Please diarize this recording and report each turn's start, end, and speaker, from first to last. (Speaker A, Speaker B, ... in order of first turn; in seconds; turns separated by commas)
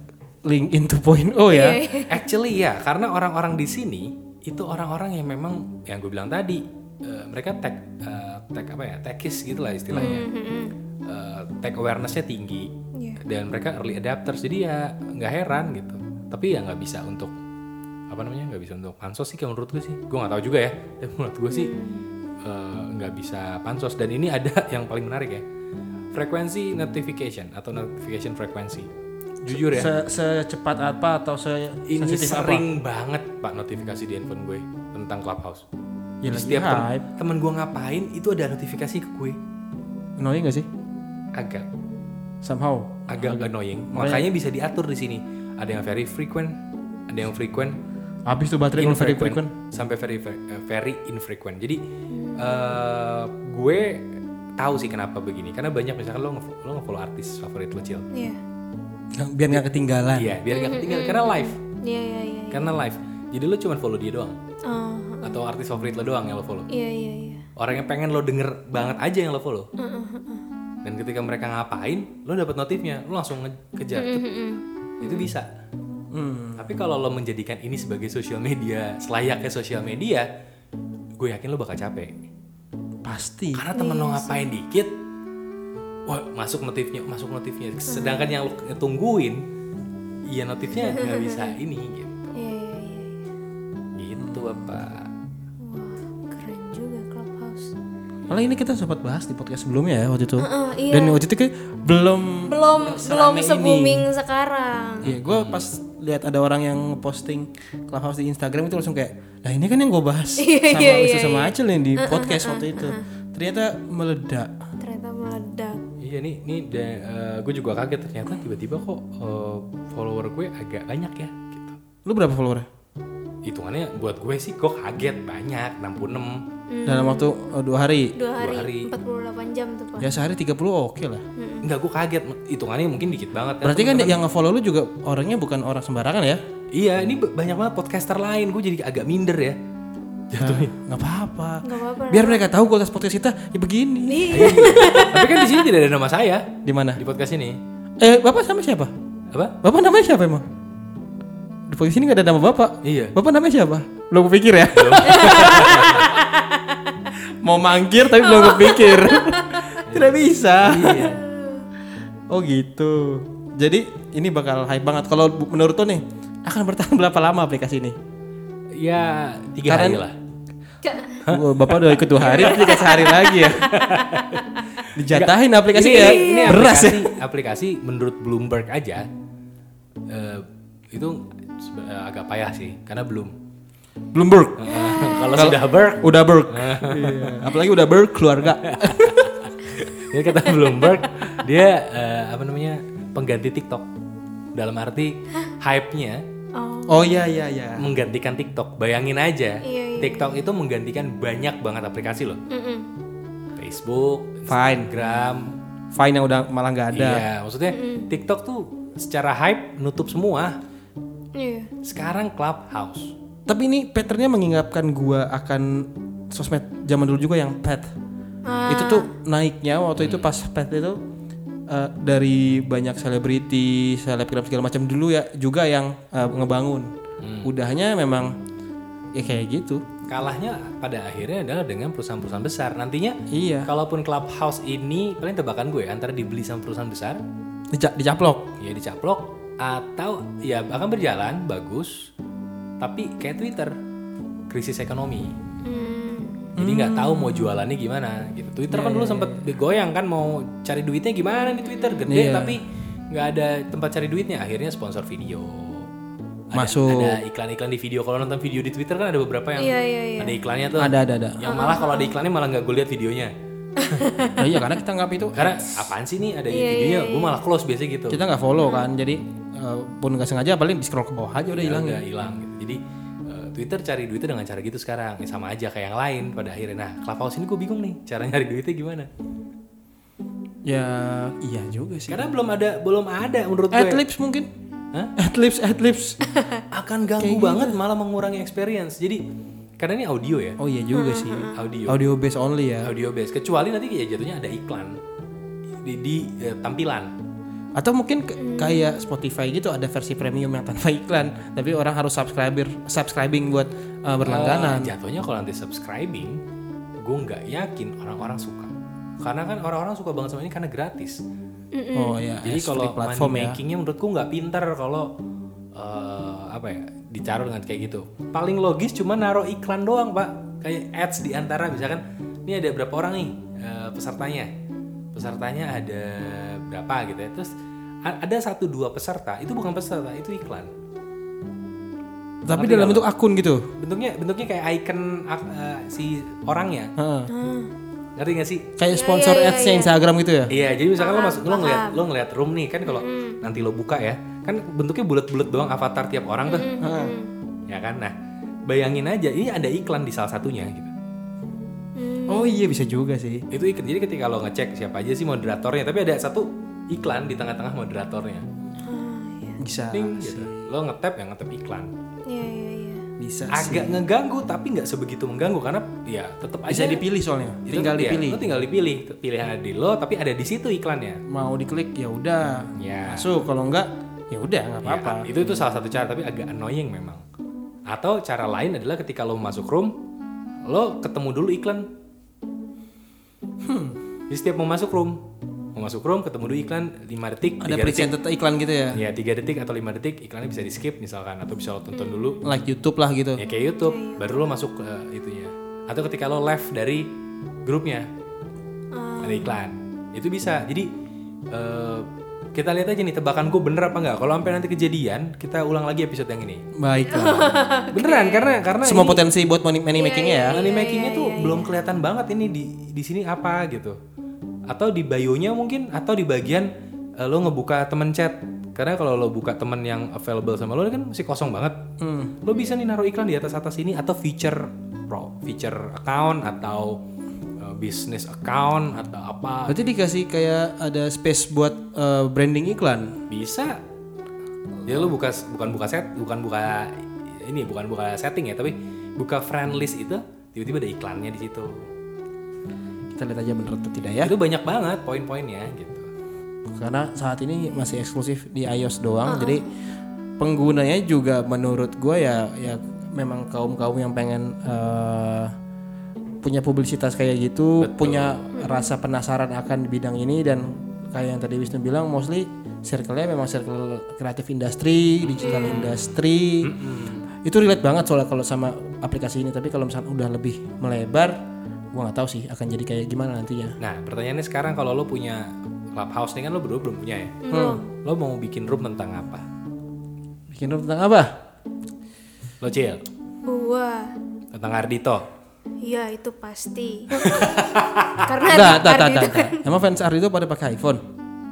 Speaker A: 0.4-1.8, Speaker B: 1.5-2.2, Speaker C: 2.1-10.3, Speaker A: 9.9-10.2, Speaker B: 9.9-10.8, Speaker C: 11.1-17.3, Speaker C: 18.1-21.7, Speaker B: 21.5-22.1, Speaker C: 22.4-25.4, Speaker C: 26.1-28.9, Speaker C: 29.4-29.9, Speaker A: 29.5-32.6, Speaker C: 31.9-35.6, Speaker A: 36.2-37.0, Speaker C: 36.3-39.4, Speaker A: 40.2-40.7, Speaker C: 41.4-41.7, Speaker A: 42.4-44.3, Speaker C: 43.1-46.6, Speaker C: 47.1-47.8, Speaker A: 48.3-49.5, Speaker C: 48.7-51.8, Speaker B: 52.1-52.7, Speaker C: 52.4-58.1, Speaker B: 58.1-58.4, Speaker A: 59.1-60.4, Speaker C: 60.1-61.6, Speaker B: 60.5-62.7, Speaker C: 62.5-64.4, Speaker B: 64.6-65.4, Speaker C: 65.2-66.7, Speaker B: 66.7-67.5, Speaker C: 67.5-69.7, Speaker B: 69.8-70.5, Speaker C: 70.8-74.2, Speaker B: 73.9-75.3, Speaker C: 75.0-75.5, Speaker A: 76.1-76.6, Speaker C: 76.6-80.2, Speaker C: 81.2-82.3, Speaker A: 83.0-83.7, Speaker C: 83.5-84.9, Speaker B: 83.7-84.5, Speaker C: 86.1-89.4, Speaker B: 87.9-88.3, Speaker C: 90.3-92.4, Speaker B: 90.8-91.5, Speaker B: 92.3-93.2, Speaker C: 93.9-95.1, Speaker A: 94.2-94.8, Speaker B: 95.6-97.7, Speaker A: 98.3-104.1, Speaker B: 100.4-101.2, Speaker B: 102.5-105.1, Speaker C: 105.0-105.6, Speaker A: 105.0-114.5, Speaker B: 110.4-113.0, Speaker B: 114.8-115.8, Speaker C: 116.0-121.8, Speaker A: 122.0-122.7, Speaker C: 123.4-126.4, Speaker B: 126.7-127.3, Speaker A: 126.8-128.1, Speaker B: 128.2-130.1, Speaker C: 128.4-128.9, Speaker A: 130.0-131.2, Speaker B: 131.3-131.7, Speaker C: 131.6-134.2, Speaker A: 133.6-136.4, Speaker C: 136.7-139.6, Speaker C: 140.3-140.7, Speaker A: 140.4-145.1, Speaker B: 141.6-142.4, Speaker B: 144.1-145.4, Speaker C: 144.3-147.6, Speaker A: 146.6-147.0, Speaker A: 148.0-148.9, Speaker C: 149.3-149.6, Speaker A: 149.6-150.4, Speaker A: 151.7-156.2, Speaker C: 152.8-153.2, Speaker C: 154.7-156.1, Speaker B: 155.2-156.1, Speaker A: 157.4-161.2, Speaker B: 158.1-159.8, Speaker C: 159.8-161.2, Speaker B: 160.9-161.7, Speaker A: 162.3-167.9, Speaker C: 168.7-170.2, Speaker A: 169.6-170.0, Speaker B: 170.8-171.2, Speaker C: 171.2-172.7, Speaker A: 171.3-173.7, Speaker B: 172.2-173.9, Speaker C: 173.6-179.1, Speaker A: 174.9-177.1, Speaker B: 175.8-176.7, Speaker C: 180.1-183.3, Speaker A: 184.1-184.7, Speaker C: 184.6-187.5, Speaker A: 185.3-189.5, Speaker C: 188.6-193.9, Speaker C: 194.5-196.2, Speaker B: 196.5-197.3, Speaker A: 196.9-197.9, Speaker C: 197.8-202.4, Speaker B: 199.6-200.3, Speaker B: 202.5-202.9, Speaker C: 203.6-205.5, Speaker A: 204.5-204.9, Speaker A: 205.9-207.2, Speaker C: 206.9-210.6, Speaker B: 207.7-208.1, Speaker B: 211.3-211.7, Speaker C: 211.8-213.1, Speaker A: 213.5-217.9, Speaker B: 218.4-219.1, Speaker A: 218.7-221.0, Speaker C: 220.0-220.3, Speaker A: 221.7-226.9, Speaker C: 227.2-227.5, Speaker A: 227.4-228.3, Speaker A: 229.1-229.8, Speaker C: 230.1-237.2, Speaker A: 233.3-233.7, Speaker A: 237.7-238.5, Speaker C: 238.6-242.1, Speaker C: 242.8-243.8, Speaker C: 244.5-245.3, Speaker B: 245.6-246.5, Speaker A: 246.6-247.6, Speaker C: 246.6-255.9, Speaker A: 248.7-249.5, Speaker B: 251.4-252.1, Speaker A: 252.1-252.6, Speaker C: 256.5-263.3, Speaker A: 256.5-257.2, Speaker B: 259.6-260.4, Speaker A: 260.8-261.4, Speaker B: 261.4-262.1, Speaker B: 263.8-264.5, Speaker A: 264.4-265.8, Speaker C: 265.3-268.2, Speaker B: 266.5-267.4, Speaker A: 268.1-272.0, Speaker B: 268.6-268.9, Speaker C: 271.5-279.1, Speaker A: 280.6-282.2, Speaker C: 282.1-284.0, Speaker A: 283.7-284.5, Speaker A: 285.1-286.2, Speaker B: 286.3-286.6, Speaker C: 286.7-289.2, Speaker A: 287.2-287.8, Speaker C: 289.8-290.6, Speaker A: 290.6-292.9, Speaker B: 290.9-291.6, Speaker C: 291.5-292.0, Speaker C: 292.8-295.0, Speaker C: 295.8-297.1, Speaker A: 297.8-304.9, Speaker B: 298.4-298.9, Speaker C: 304.2-306.4, Speaker C: 307.0-311.2, Speaker B: 311.7-312.2, Speaker A: 311.9-313.6, Speaker C: 312.4-315.1, Speaker C: 315.7-324.5, Speaker C: 325.1-327.5, Speaker C: 328.0-330.7, Speaker A: 332.4-333.7, Speaker C: 332.5-333.1, Speaker C: 333.8-336.9, Speaker A: 337.0-337.3, Speaker B: 337.3-337.7, Speaker C: 338.1-338.6, Speaker A: 338.8-340.5, Speaker B: 338.9-339.9, Speaker C: 340.5-346.7, Speaker B: 341.0-342.0, Speaker B: 342.9-343.4, Speaker B: 346.4-347.3, Speaker A: 346.8-347.1, Speaker C: 347.7-348.1, Speaker C: 348.7-350.9, Speaker B: 351.9-352.6, Speaker A: 352.3-353.4, Speaker C: 353.5-358.4, Speaker B: 358.8-359.6, Speaker A: 359.6-360.7, Speaker C: 359.9-361.9, Speaker B: 362.2-363.0, Speaker A: 363.2-364.0, Speaker C: 363.5-367.0, Speaker A: 366.7-368.5, Speaker C: 367.6-371.2, Speaker A: 371.3-375.3, Speaker C: 372.8-373.3, Speaker C: 374.8-377.2, Speaker C: 377.9-379.9, Speaker C: 380.6-381.9, Speaker A: 383.6-383.9, Speaker C: 384.3-385.2, Speaker C: 385.7-388.1, Speaker A: 387.6-389.0, Speaker C: 388.9-392.4, Speaker A: 392.4-393.4, Speaker C: 393.4-397.1, Speaker B: 393.4-394.4, Speaker C: 397.6-398.1, Speaker B: 398.9-399.5, Speaker C: 399.2-400.9, Speaker C: 401.5-406.6, Speaker A: 406.8-407.6, Speaker B: 407.1-408.5, Speaker C: 407.9-409.2, Speaker A: 408.8-410.6, Speaker B: 409.9-411.8, Speaker C: 410.5-414.0, Speaker C: 414.7-421.8, Speaker A: 422.0-422.4, Speaker C: 422.4-427.0, Speaker C: 427.6-429.8, Speaker A: 429.7-433.2, Speaker C: 433.3-433.8, Speaker C: 434.9-441.9, Speaker A: 443.1-444.3, Speaker C: 444.2-446.1, Speaker A: 446.7-449.6, Speaker B: 449.3-449.6, Speaker A: 450.4-455.5, Speaker A: 456.4-466.7, Speaker C: 457.8-458.5, Speaker B: 458.5-458.9, Speaker C: 465.2-467.3, Speaker B: 465.4-465.9, Speaker A: 467.4-471.4, Speaker A: 471.9-473.8, Speaker C: 473.8-477.4, Speaker B: 477.4-477.9, Speaker A: 477.5-477.8, Speaker C: 478.0-479.4, Speaker A: 480.5-481.4, Speaker C: 482.6-483.0, Speaker B: 483.4-484.1, Speaker C: 484.5-485.2, Speaker B: 485.8-487.7, Speaker C: 487.1-488.4, Speaker B: 488.2-489.6, Speaker A: 488.5-491.0